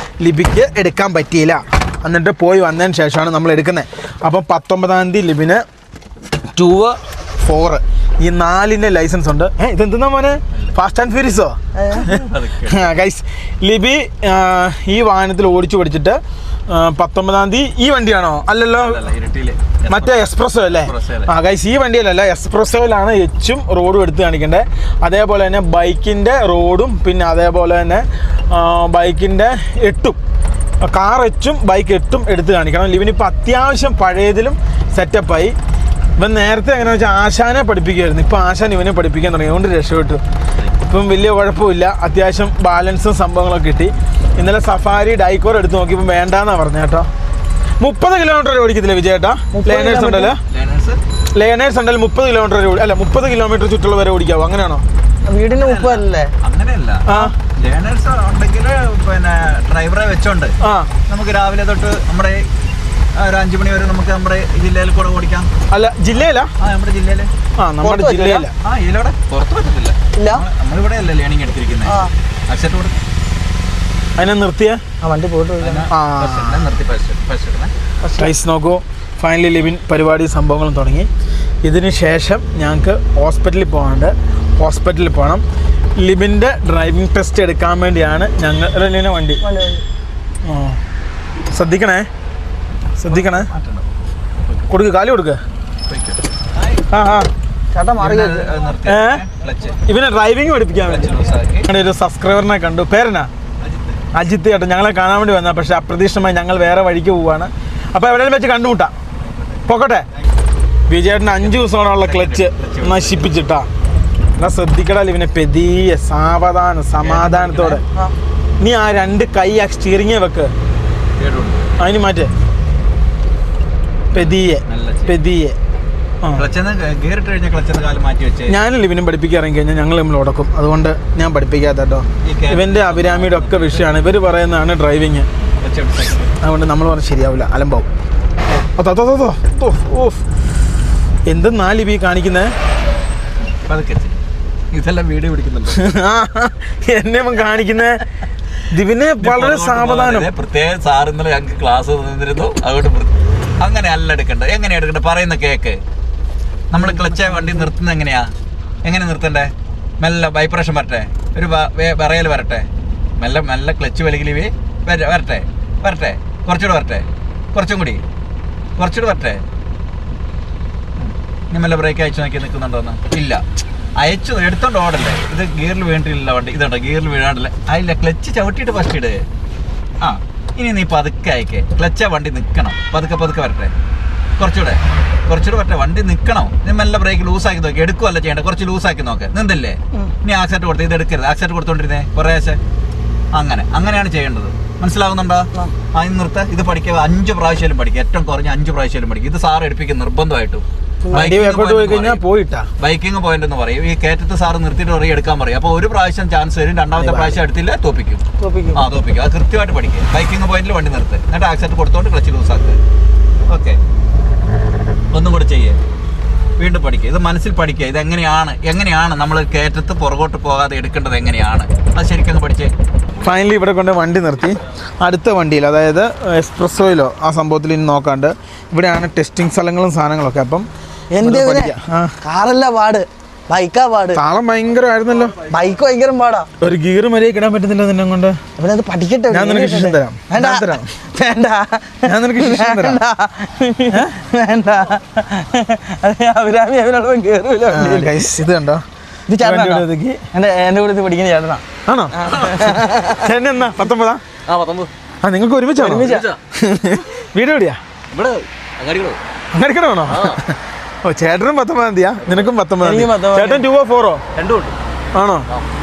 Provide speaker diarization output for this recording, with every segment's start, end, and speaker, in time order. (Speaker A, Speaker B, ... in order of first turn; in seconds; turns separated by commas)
Speaker A: 0.2-5.6, Speaker A: 6.5-19.0, Speaker B: 11.7-12.1, Speaker C: 12.0-12.9, Speaker C: 18.8-21.3, Speaker A: 19.9-30.2, Speaker A: 30.8-35.5, Speaker A: 36.2-40.2, Speaker A: 40.8-47.1, Speaker A: 47.8-50.4, Speaker B: 49.5-50.3, Speaker C: 50.5-51.0, Speaker A: 51.4-54.8, Speaker B: 55.3-56.3, Speaker C: 55.5-60.5, Speaker A: 57.1-57.3, Speaker A: 60.6-60.9, Speaker C: 61.1-62.5, Speaker C: 63.1-65.5, Speaker A: 65.7-66.5, Speaker C: 66.6-67.3, Speaker A: 67.6-68.5, Speaker B: 67.8-68.5, Speaker C: 68.6-73.0, Speaker B: 70.2-70.5, Speaker B: 71.8-72.1, Speaker A: 74.2-74.8, Speaker B: 75.0-75.8, Speaker C: 75.6-77.7, Speaker A: 75.9-76.6, Speaker B: 78.0-78.3, Speaker A: 78.2-81.1, Speaker A: 81.6-85.4, Speaker A: 86.0-89.4, Speaker B: 89.4-89.8, Speaker A: 90.5-90.8, Speaker A: 91.5-92.1, Speaker A: 93.0-93.5, Speaker C: 93.1-93.9, Speaker A: 94.7-95.4, Speaker C: 95.9-96.8, Speaker A: 96.9-97.3, Speaker B: 97.7-98.5, Speaker C: 98.0-99.8, Speaker A: 98.9-99.2, Speaker A: 99.8-101.1, Speaker C: 100.8-101.7, Speaker A: 101.7-103.3, Speaker A: 104.1-108.9, Speaker A: 109.7-110.1, Speaker A: 110.9-113.7, Speaker C: 111.4-113.4, Speaker A: 114.4-117.8, Speaker C: 117.0-117.8, Speaker A: 118.6-120.5, Speaker C: 121.2-121.7, Speaker A: 121.8-122.3, Speaker C: 124.1-125.2, Speaker A: 124.1-125.6, Speaker C: 126.3-128.6, Speaker A: 128.5-135.3, Speaker C: 132.2-134.0, Speaker C: 135.6-136.3, Speaker A: 136.4-137.9, Speaker A: 138.8-140.2, Speaker A: 141.3-142.5, Speaker C: 143.7-144.2, Speaker C: 144.7-145.9, Speaker A: 145.7-148.0, Speaker A: 148.7-150.3, Speaker C: 149.2-155.8, Speaker C: 156.7-158.3, Speaker C: 158.8-162.7, Speaker C: 163.2-168.0, Speaker C: 168.8-169.4, Speaker C: 171.0-173.4, Speaker C: 174.0-179.2, Speaker C: 180.0-183.7, Speaker C: 184.4-192.6, Speaker C: 193.3-202.2, Speaker B: 201.1-201.3, Speaker A: 201.1-202.7, Speaker C: 202.8-208.2, Speaker B: 208.4-208.8, Speaker C: 208.8-212.8, Speaker C: 213.5-213.8, Speaker C: 215.1-215.8, Speaker C: 216.6-223.4, Speaker A: 223.2-230.7, Speaker B: 231.1-234.2, Speaker A: 231.2-232.1, Speaker A: 234.1-235.4, Speaker B: 235.5-236.5, Speaker A: 236.6-238.4, Speaker B: 238.6-248.4, Speaker A: 239.3-240.9, Speaker A: 242.1-243.0, Speaker A: 247.7-248.8, Speaker B: 249.3-253.3, Speaker A: 249.4-250.2, Speaker A: 251.9-254.2, Speaker D: 254.5-254.9, Speaker A: 255.2-257.8, Speaker B: 255.8-256.3, Speaker D: 255.9-256.4, Speaker D: 258.1-259.2, Speaker A: 259.5-264.2, Speaker D: 260.1-260.4, Speaker B: 262.8-263.6, Speaker D: 264.4-264.7, Speaker A: 265.1-265.5